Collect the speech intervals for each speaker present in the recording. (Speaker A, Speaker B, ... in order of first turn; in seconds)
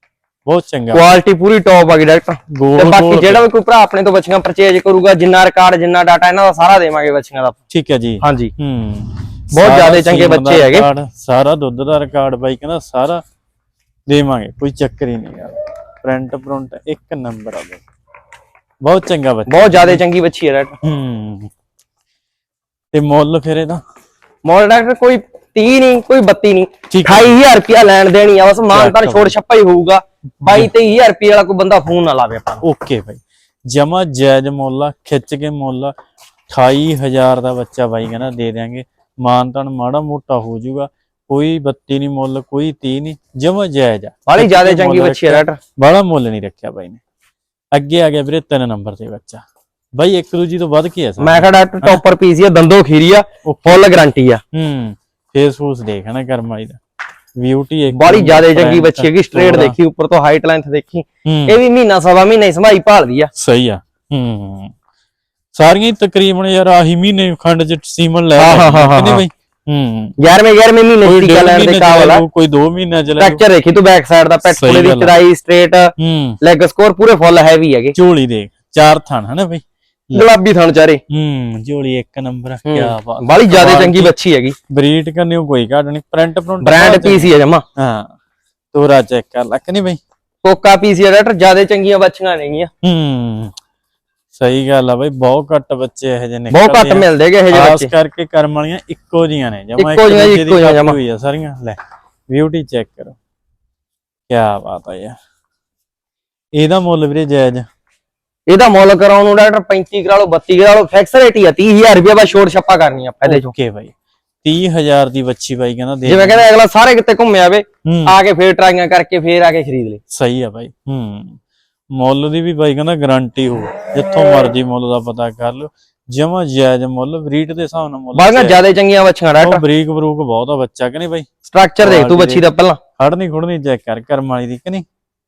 Speaker A: 0.5-1.1, 2.5-3.5, 7.7-13.2, 14.1-17.8, 18.8-20.0, 20.8-21.5, 22.9-23.8, 26.9-27.4, 28.7-29.4, 30.4-30.7, 32.6-35.9, 36.5-47.0, 47.7-49.4, 50.0-52.0, 53.5-54.0, 54.5-56.8, 57.4-59.8, 61.3-61.6, 63.4-64.7, 65.5-70.2, 71.0-73.4, 74.5-75.2, 76.0-76.4, 78.0-80.3, 81.1-84.1, 84.7-88.1, 88.7-90.0, 92.8-93.5, 94.3-101.8, 102.3-103.2, 104.3-105.2, 106.5-107.7, 113.3-113.9, 114.4-116.4, 117.9-118.2, 120.1-121.4, 122.0-128.6, 129.4-131.3, 131.8-132.5, 133.0-134.9
Speaker B: 0.9-7.6, 8.2-8.5, 9.5-10.9, 19.5-20.8, 24.4-32.6, 44.3-45.6, 51.2-54.4, 57.9-63.3, 68.4-69.2, 70.2-72.2, 73.2-78.0, 80.1-81.0, 82.7-84.6, 86.6-87.6, 90.4-92.7, 96.5-97.9, 99.8-101.0, 108.5-113.5, 116.1-120.0, 128.2-129.6, 131.5-132.8